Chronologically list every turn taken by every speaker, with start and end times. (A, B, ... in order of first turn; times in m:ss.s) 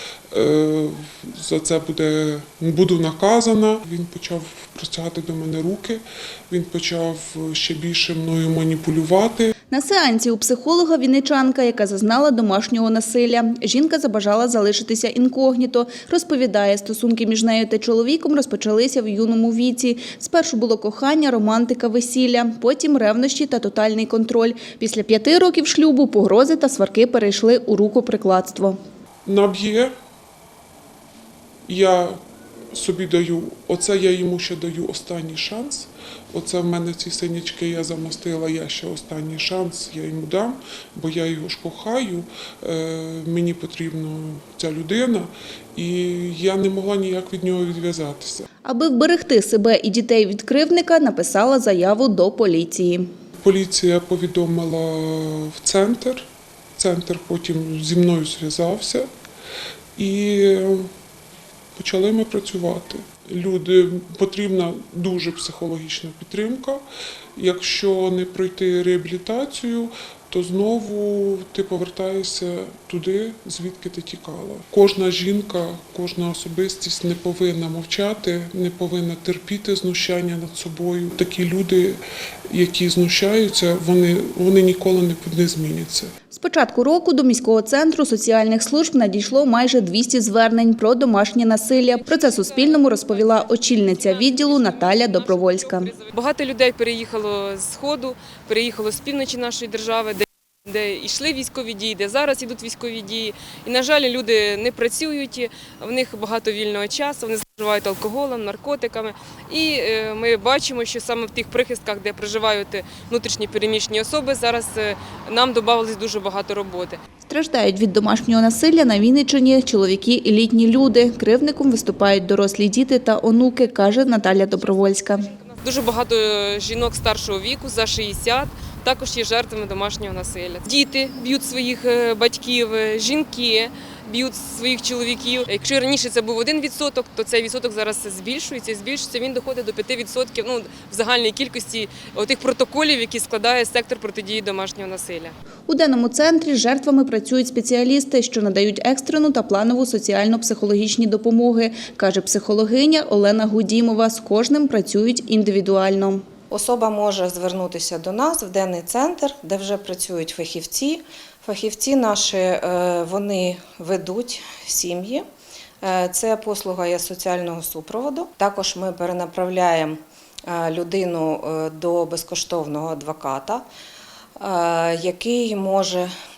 0:00.3-0:09.5 A
0:09.7-0:28.8 B
0:29.3-0:29.9 A
0:31.7-0:32.2 A
0:32.7-0:48.5 A
0:48.6-0:53.1 B
0:53.4-0:59.1 A
1:00.0-1:00.9 A
1:01.8-1:06.8 A
1:07.4-1:26.1 A
1:26.3-1:35.9 B
1:31.8-1:57.0 C
1:57.2-2:05.3 B
2:04.1-2:25.4 C
2:25.7-2:36.2 B
2:36.5-2:45.3 D
2:45.8-2:53.6 D
2:54.4-2:56.1 D